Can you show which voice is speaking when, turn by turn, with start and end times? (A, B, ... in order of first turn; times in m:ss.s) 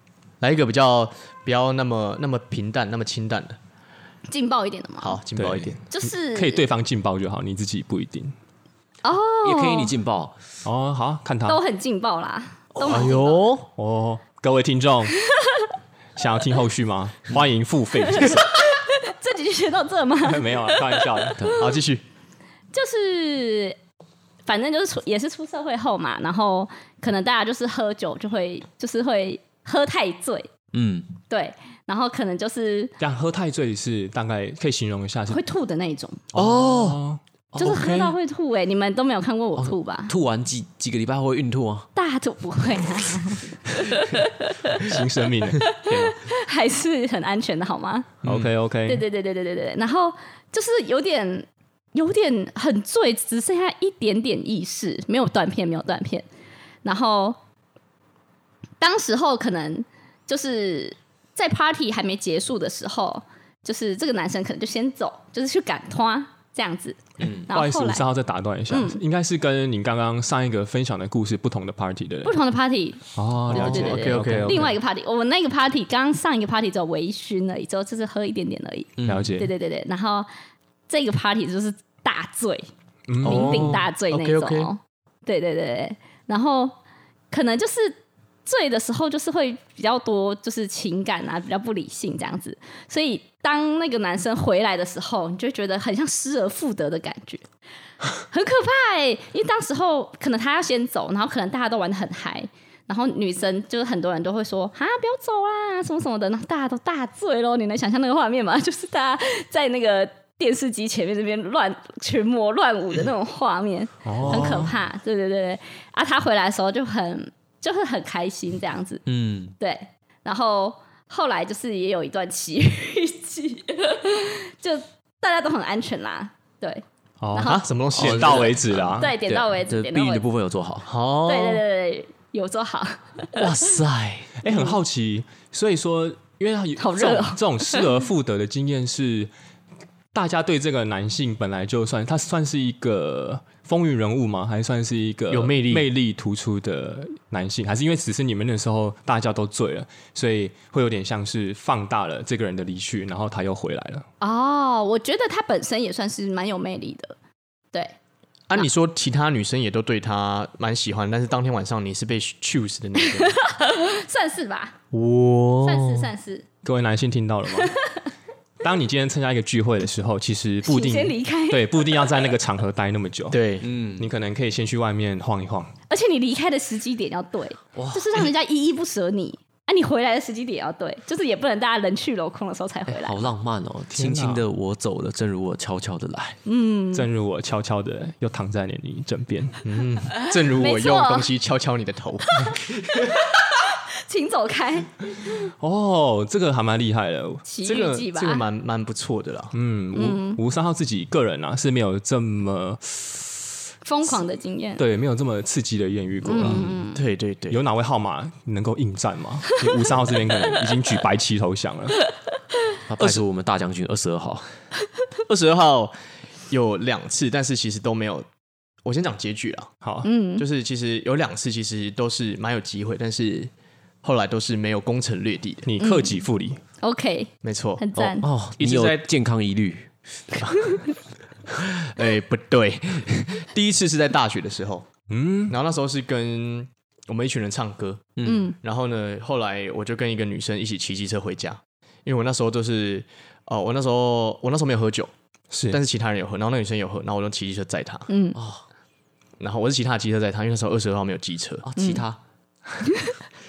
0:00.4-0:03.6 A
0:04.3-0:05.2 B
0:05.0-0:05.8 A
0:05.4-0:08.3 C
0:05.9-0:06.6 B
0:09.0-0:09.9 B
0:09.4-0:10.4 D
0:10.6-0:11.6 C
0:11.5-0:13.4 B
0:12.8-0:13.2 D
0:12.8-0:13.7 A
0:13.8-0:15.2 C
0:15.4-0:15.7 B
0:16.2-0:18.5 C
0:18.1-0:21.8 B
0:20.2-0:21.5 C
0:21.6-0:22.0 A
0:22.7-0:23.8 B
0:24.4-0:30.5 B
0:30.7-0:31.1 D
0:31.3-0:32.9 B
0:33.0-0:35.4 C
0:35.3-0:36.2 B
0:36.3-0:37.2 C
0:36.3-0:37.0 A
0:37.6-0:37.8 D
0:37.6-0:40.1 B
0:37.7-0:38.0 A
0:39.6-0:41.9 D
0:42.0-0:45.0 B
0:44.8-0:46.2 C
0:45.6-0:48.1 B
0:48.2-0:49.0 C
0:48.9-0:56.2 B
0:56.8-0:57.4 B
0:58.8-1:08.0 B
1:07.2-1:07.5 D
1:07.5-1:12.4 C
1:08.7-1:09.0 B
1:12.2-1:20.3 B
1:13.1-1:14.7 C
1:13.5-1:14.7 A
1:19.0-1:19.3 D
1:19.0-1:19.5 C
1:20.9-1:22.7 B
1:23.1-1:23.8 C
1:23.2-1:26.7 B
1:23.2-1:24.7 A
1:23.3-1:23.7 D
1:27.3-1:37.4 B
1:38.3-1:59.0 B
1:54.0-1:54.7 C
1:59.1-1:59.5 D
1:59.6-2:07.7 B
2:07.2-2:09.1 C
2:07.4-2:08.8 A
2:08.0-2:10.9 D
2:08.4-2:10.2 B
2:10.8-2:11.6 A
2:11.2-2:13.5 B
2:13.4-2:14.2 A
2:13.4-2:14.2 D
2:14.4-2:19.3 C
2:16.8-2:17.9 B
2:20.1-2:34.0 C
2:25.3-2:25.9 A
2:34.2-2:37.1 B
2:38.5-2:43.4 A
2:43.3-2:44.8 B
2:44.9-2:46.1 A
2:45.6-2:46.4 B
2:46.6-2:47.7 C
2:47.5-2:48.0 B
2:48.6-2:53.4 C
2:50.6-2:52.1 B
2:53.3-2:53.7 A
2:53.6-2:54.1 D
2:54.0-2:55.7 C
2:55.9-3:03.2 B
2:57.8-2:58.3 D
3:02.9-3:06.4 D
3:03.9-3:04.4 C
3:06.4-3:07.1 B
3:06.9-3:09.6 C
3:09.6-3:12.7 A
3:10.3-3:11.3 B
3:12.3-3:13.2 B
3:13.7-3:15.4 B
3:15.6-3:17.4 C
3:17.4-3:18.4 B
3:17.6-3:19.5 A
3:19.5-3:23.4 C
3:19.9-3:20.4 B
3:23.8-3:24.8 B
3:24.8-3:26.8 C
3:26.2-3:27.0 B
3:26.9-3:27.6 A
3:27.5-3:32.0 C
3:32.9-3:34.5 D
3:35.3-3:36.0 A
3:36.5-3:38.3 A
3:38.8-3:39.7 A
3:39.8-3:40.1 C
3:40.0-3:40.4 B
3:40.4-3:43.5 A
3:44.0-3:45.7 A
3:45.6-3:46.6 C
3:45.8-3:46.2 B
3:46.8-3:48.3 B
3:47.4-3:47.8 A
3:47.9-3:49.9 D
3:48.6-3:49.0 A
3:50.4-3:50.9 A
3:51.5-3:54.9 A
3:55.1-3:55.6 C
3:55.5-4:05.1 A
3:58.2-3:58.5 D
3:58.2-3:58.6 B
4:05.5-4:05.8 C
4:05.7-4:08.1 A
4:08.1-4:08.4 B
4:08.3-4:08.6 D
4:09.4-4:11.7 A
4:11.6-4:12.2 D
4:11.8-4:12.0 B
4:12.9-4:13.1 B